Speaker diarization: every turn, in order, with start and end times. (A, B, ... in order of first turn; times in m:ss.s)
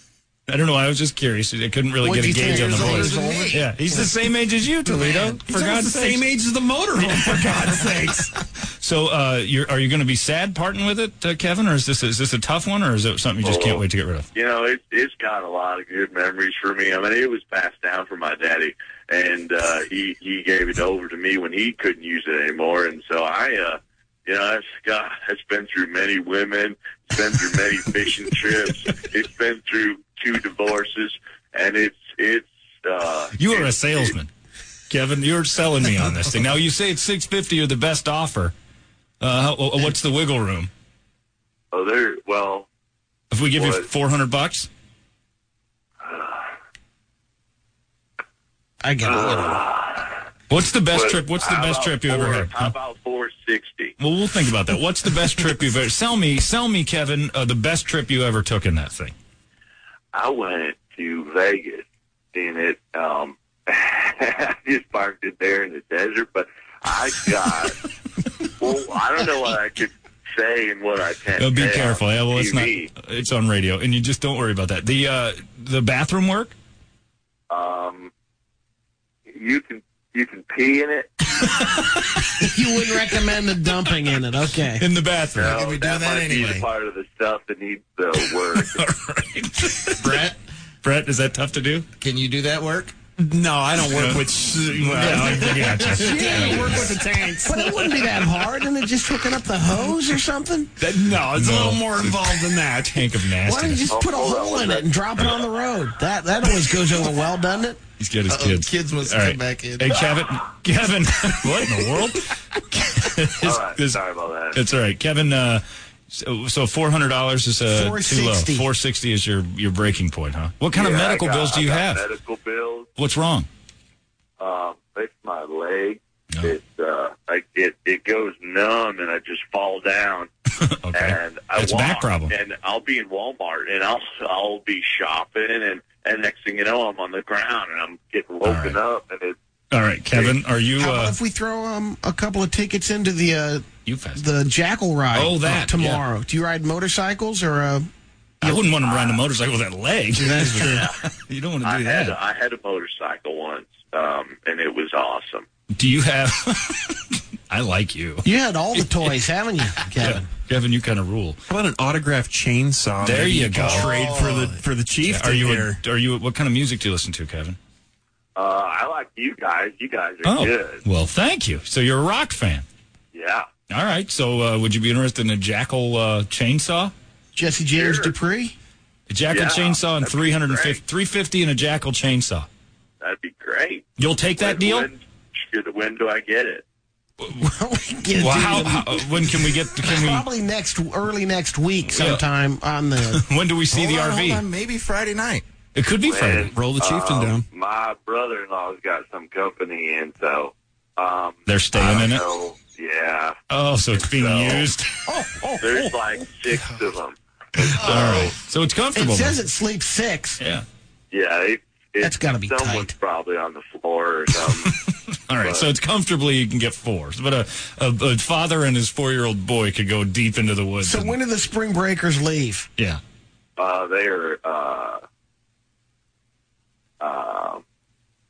0:00.5-0:06.2 A
0:02.0-0:04.1 B
0:02.4-0:03.7 C
0:05.4-0:08.3 D
0:08.8-0:14.3 A
0:13.4-0:13.8 E
0:14.3-0:34.1 E
0:33.3-0:34.3 A
0:34.9-0:38.5 A
0:39.2-0:40.7 A
0:41.7-0:42.7 E
0:43.3-0:44.7 A
0:43.5-0:43.8 E
0:46.0-0:46.4 E
0:48.8-0:49.6 B
0:49.0-0:50.1 E
0:50.5-0:52.7 A
0:50.9-0:53.9 E
0:54.0-0:59.1 A
1:00.1-1:07.8 E
1:08.6-1:12.9 E
1:11.4-1:16.5 A
1:17.5-1:18.1 E
1:19.3-1:21.1 E
1:22.4-1:24.8 B
1:24.8-1:25.6 A
1:25.3-1:28.8 E
1:25.4-1:26.6 C
1:28.5-1:30.3 A
1:30.0-1:30.3 C
1:30.8-1:31.9 A
1:32.0-1:32.9 C
1:33.2-1:38.1 D
1:33.8-1:37.0 A
1:35.8-1:40.7 B
1:40.8-1:43.0 D
1:41.2-1:43.9 A
1:43.4-1:47.8 B
1:43.9-1:45.0 E
1:48.0-1:54.0 A
1:48.3-1:50.0 C
1:49.9-1:50.2 E
1:53.4-1:54.6 E
1:54.5-2:02.0 A
1:57.7-1:58.7 B
2:00.7-2:02.9 E
2:03.0-2:03.5 A
2:04.4-2:10.3 E
2:10.6-2:12.3 A
2:10.9-2:19.4 E
2:18.4-2:18.8 A
2:19.7-2:21.2 A
2:20.8-2:27.9 B
2:23.8-2:24.2 A
2:25.1-2:26.0 A
2:28.4-2:32.2 A
2:28.8-2:29.2 E
2:30.2-2:30.8 B
2:30.6-2:31.0 E
2:31.6-2:35.4 E
2:35.7-2:38.9 A
2:38.2-2:40.3 B
2:40.0-2:41.4 A
2:41.5-2:45.8 D
2:43.0-2:43.9 A
2:43.6-2:44.6 C
2:45.0-2:47.6 A
2:48.4-2:50.8 E
2:50.2-2:52.6 A
2:53.1-2:53.5 E
2:53.7-2:56.9 A
2:57.3-2:58.5 B
2:57.8-2:58.1 E
2:59.1-3:02.5 A
2:59.3-3:00.8 E
3:03.0-3:06.6 E
3:04.0-3:04.9 A
3:07.4-3:09.1 B
3:08.1-3:10.2 A
3:09.8-3:13.2 B
3:11.9-3:12.2 A
3:13.1-3:14.4 A
3:13.7-3:15.4 C
3:15.7-3:16.6 A
3:16.0-3:23.4 E
3:16.5-3:17.4 D
3:21.4-3:22.2 A
3:23.5-3:24.9 A
3:24.0-3:24.7 E
3:25.0-3:26.0 B
3:25.6-3:28.4 E
3:27.7-3:29.4 A
3:28.9-3:30.4 B
3:30.4-3:30.6 A
3:31.1-3:34.7 E
3:32.0-3:32.9 B
3:34.4-3:41.2 A
3:35.4-3:35.7 E
3:40.8-3:42.7 B
3:43.6-3:45.0 E
3:47.0-3:47.6 E